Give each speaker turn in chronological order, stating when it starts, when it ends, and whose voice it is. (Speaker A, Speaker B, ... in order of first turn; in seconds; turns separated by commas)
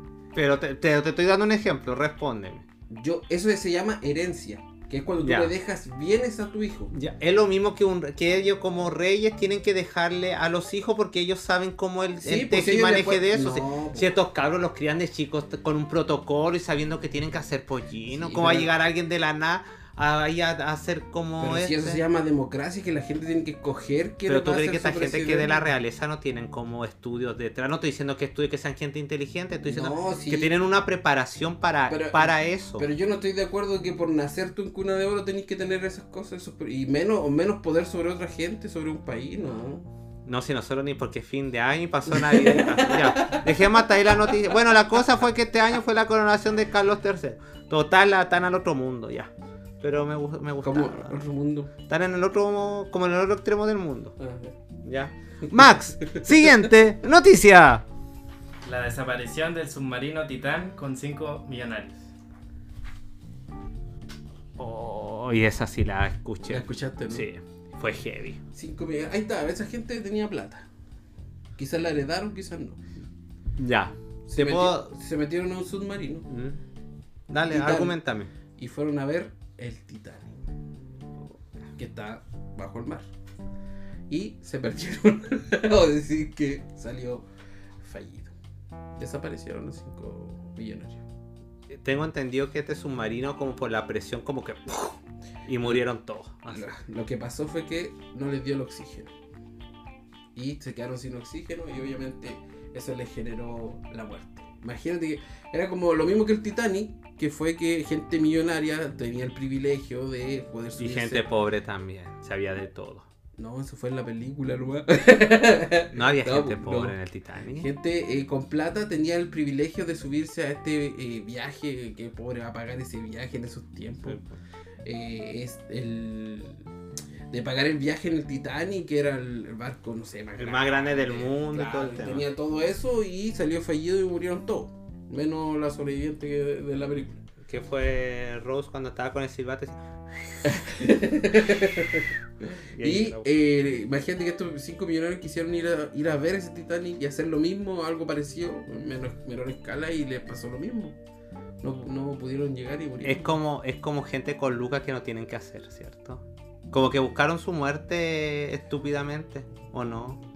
Speaker A: 0.3-2.6, Speaker B: 2.9-6.9, Speaker A: 5.2-5.5, Speaker A: 6.9-22.0, Speaker B: 12.2-14.1, Speaker B: 18.1-18.7, Speaker B: 21.4-25.6, Speaker A: 24.3-32.9, Speaker B: 29.6-30.5, Speaker B: 31.9-39.9, Speaker A: 40.2-51.2, Speaker B: 42.1-43.8, Speaker B: 50.6-51.7, Speaker A: 51.9-54.1, Speaker B: 54.2-54.5, Speaker A: 54.8-57.8, Speaker B: 55.6-56.7, Speaker C: 58.6-62.0, Speaker A: 64.6-68.4, Speaker B: 66.5-67.3, Speaker B: 68.5-70.7, Speaker B: 71.6-72.8, Speaker A: 73.6-74.9, Speaker B: 74.3-76.3, Speaker A: 76.3-76.6, Speaker A: 77.3-78.3, Speaker B: 77.5-78.0, Speaker B: 78.5-80.4, Speaker B: 81.8-83.1, Speaker B: 84.1-87.2, Speaker B: 87.8-88.3, Speaker B: 89.0-91.0, Speaker A: 91.7-96.8, Speaker B: 96.5-99.1, Speaker B: 100.3-111.2, Speaker A: 110.8-113.1, Speaker B: 113.4-117.0, Speaker A: 115.9-117.7, Speaker B: 117.5-124.2, Speaker A: 124.0-124.3, Speaker B: 124.8-126.6, Speaker B: 127.3-137.2, Speaker A: 130.4-132.3, Speaker A: 137.4-140.6, Speaker B: 140.5-151.0, Speaker A: 142.7-143.3, Speaker B: 151.6-153.3, Speaker A: 153.0-160.2